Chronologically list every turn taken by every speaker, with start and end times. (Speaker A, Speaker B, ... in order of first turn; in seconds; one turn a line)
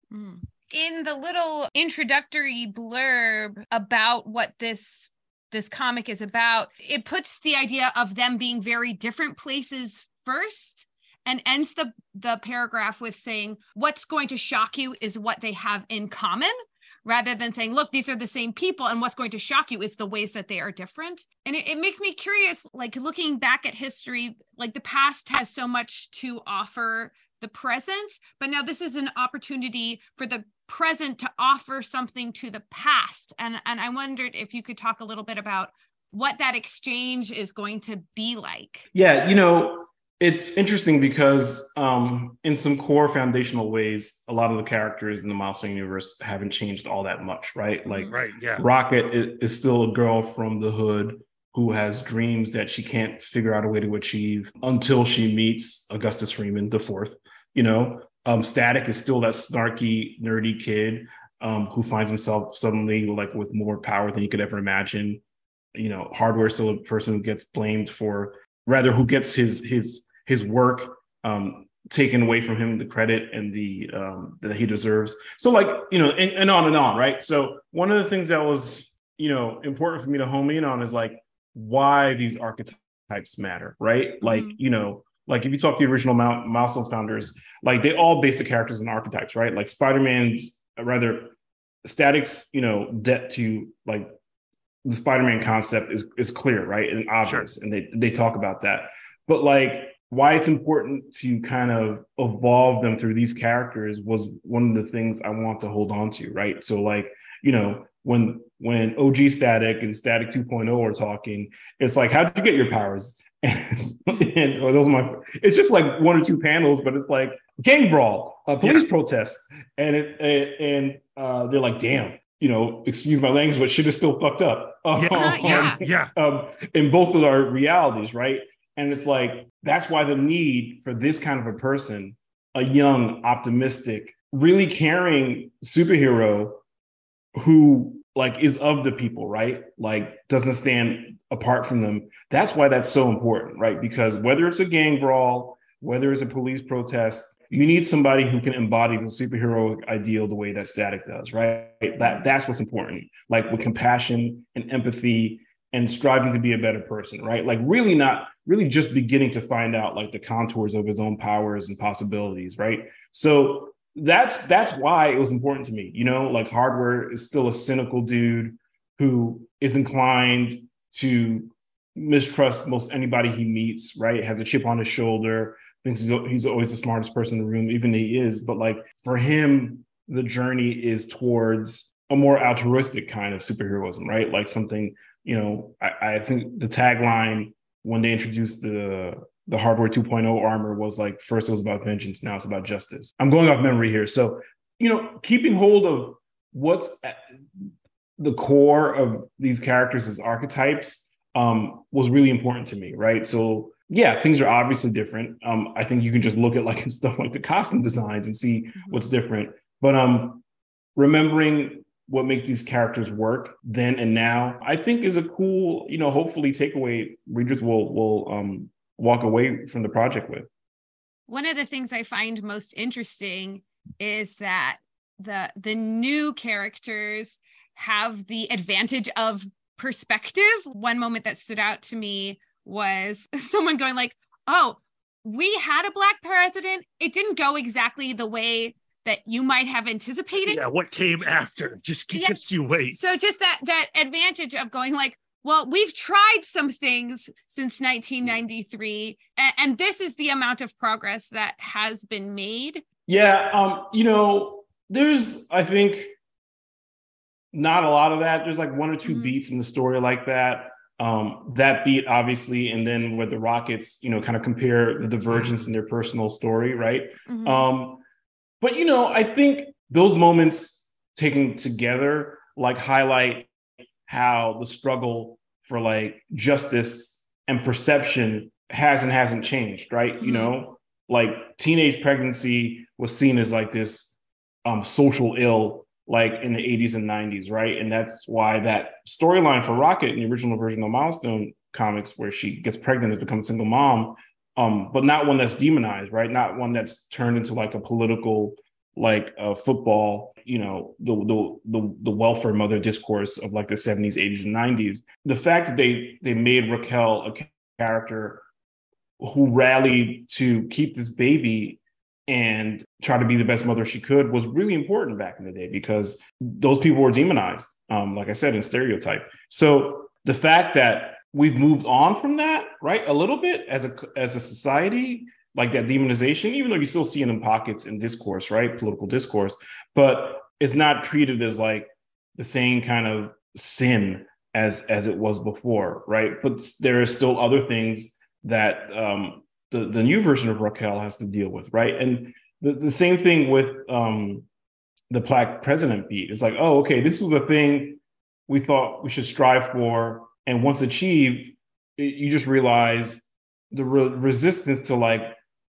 Speaker A: 0.1-16.5
Speaker A: 17.1-38.9
Speaker B: 38.9-65.2
Speaker A: 47.9-48.1
Speaker C: 48.1-48.7
Speaker B: 65.8-94.1
Speaker A: 84.2-84.6
Speaker B: 94.8-136.6
Speaker C: 118.6-118.9
Speaker C: 125.0-126.1
Speaker A: 125.1-125.8
Speaker B: 137.4-197.2
Speaker B: 198.2-210.4
Speaker B: 211.0-220.5
Speaker A: 221.3-240.6
Speaker C: 240.5-243.0
Speaker A: 242.1-252.9
Speaker B: 253.1-256.1
Speaker B: 257.5-268.0
Speaker A: 259.0-259.4
Speaker C: 265.3-265.7
Speaker A: 267.3-267.7
Speaker B: 268.6-273.5
Speaker B: 274.1-308.4
Speaker A: 280.2-280.5
Speaker B: 309.2-344.5
Speaker B: 345.1-355.4